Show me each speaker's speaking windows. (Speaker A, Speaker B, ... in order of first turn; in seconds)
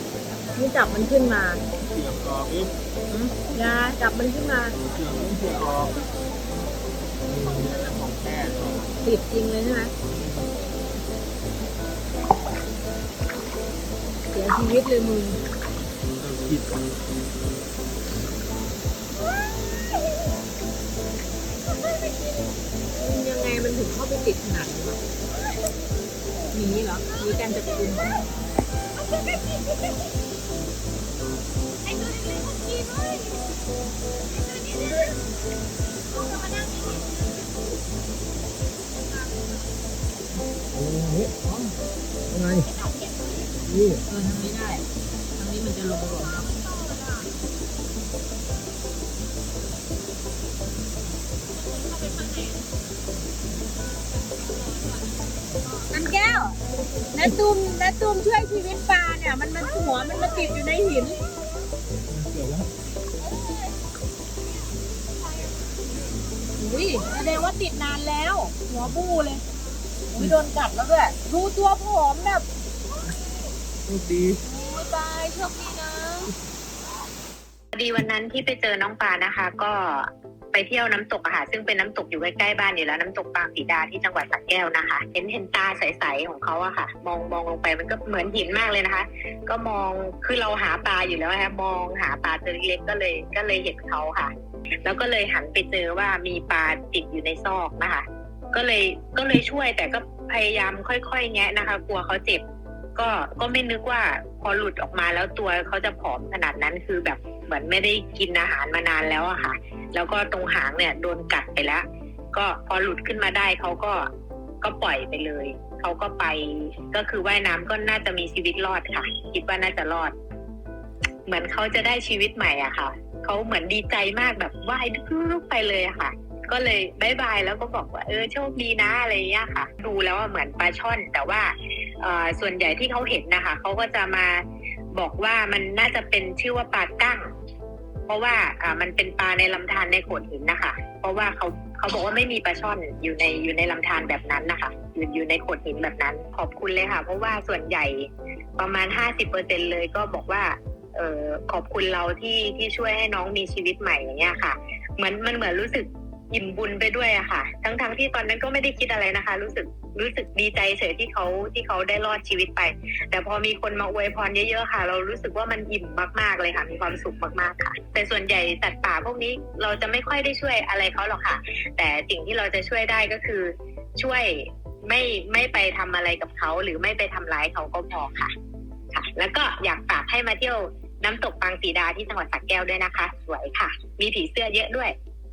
Speaker A: 0.5-1.6, 3.1-4.8, 9.0-9.9, 14.3-15.4, 22.9-25.0, 26.5-28.2, 32.0-33.0, 44.1-44.9, 45.4-46.5, 55.9-56.6, 57.1-61.2, 66.6-69.4, 70.1-72.4, 74.4-76.3
Speaker B: 1.8-2.7, 4.8-6.1, 7.2-9.0, 10.1-10.5, 16.1-16.8, 62.1-62.7, 73.8-74.4
Speaker C: 77.7-94.3, 94.8-102.4, 103.0-114.1, 114.6-120.1, 121.3-134.4, 134.9-137.2, 138.1-178.3, 178.9-184.9